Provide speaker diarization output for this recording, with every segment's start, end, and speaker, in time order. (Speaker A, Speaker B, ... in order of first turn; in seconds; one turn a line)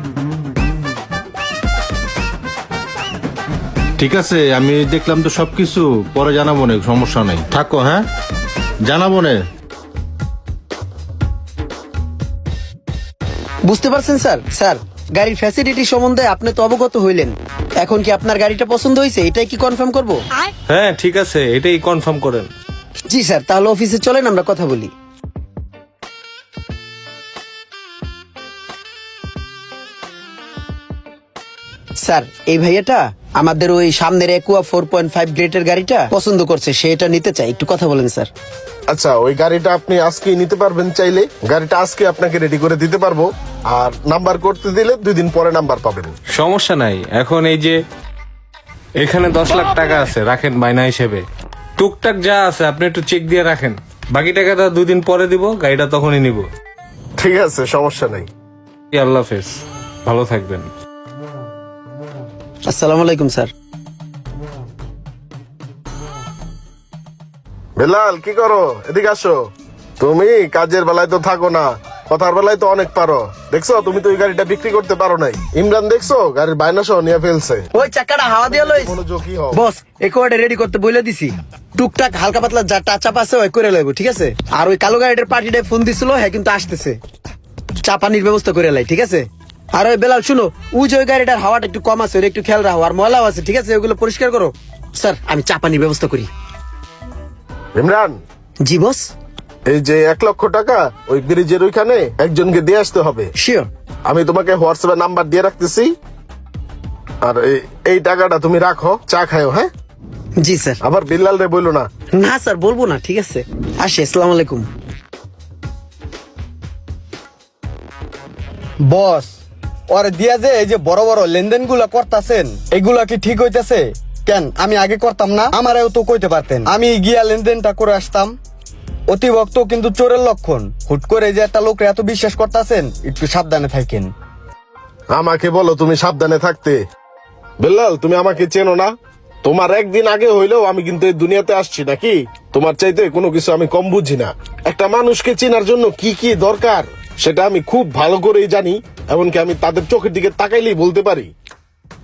Speaker A: 4.0-8.1
Speaker A: 8.8-9.4
Speaker B: 13.7-20.2
Speaker C: 20.7-22.5
Speaker B: 23.1-24.9
Speaker B: 32.0-38.3
Speaker D: 38.9-46.1
Speaker C: 46.3-47.8
Speaker C: 49.0-51.2
Speaker C: 51.8-56.5
Speaker D: 57.2-58.3
Speaker C: 58.9-60.7
Speaker B: 62.7-63.5
Speaker D: 67.8-69.5
Speaker D: 70.0-77.7
Speaker B: 77.8-79.0
Speaker D: 78.5-79.6
Speaker B: 79.5-87.0
Speaker B: 87.8-96.3
Speaker D: 97.8-98.2
Speaker B: 98.7-99.1
Speaker D: 99.7-103.3
Speaker B: 103.4-103.7
Speaker D: 104.1-105.9
Speaker D: 107.2-109.7
Speaker B: 110.4-110.8
Speaker D: 110.8-111.9
Speaker B: 112.1-114.7
Speaker E: 118.9-119.4
Speaker E: 119.9-128.3
Speaker E: 129.1-134.1
Speaker D: 135.1-136.8
Speaker D: 137.6-138.9
Speaker D: 139.4-151.3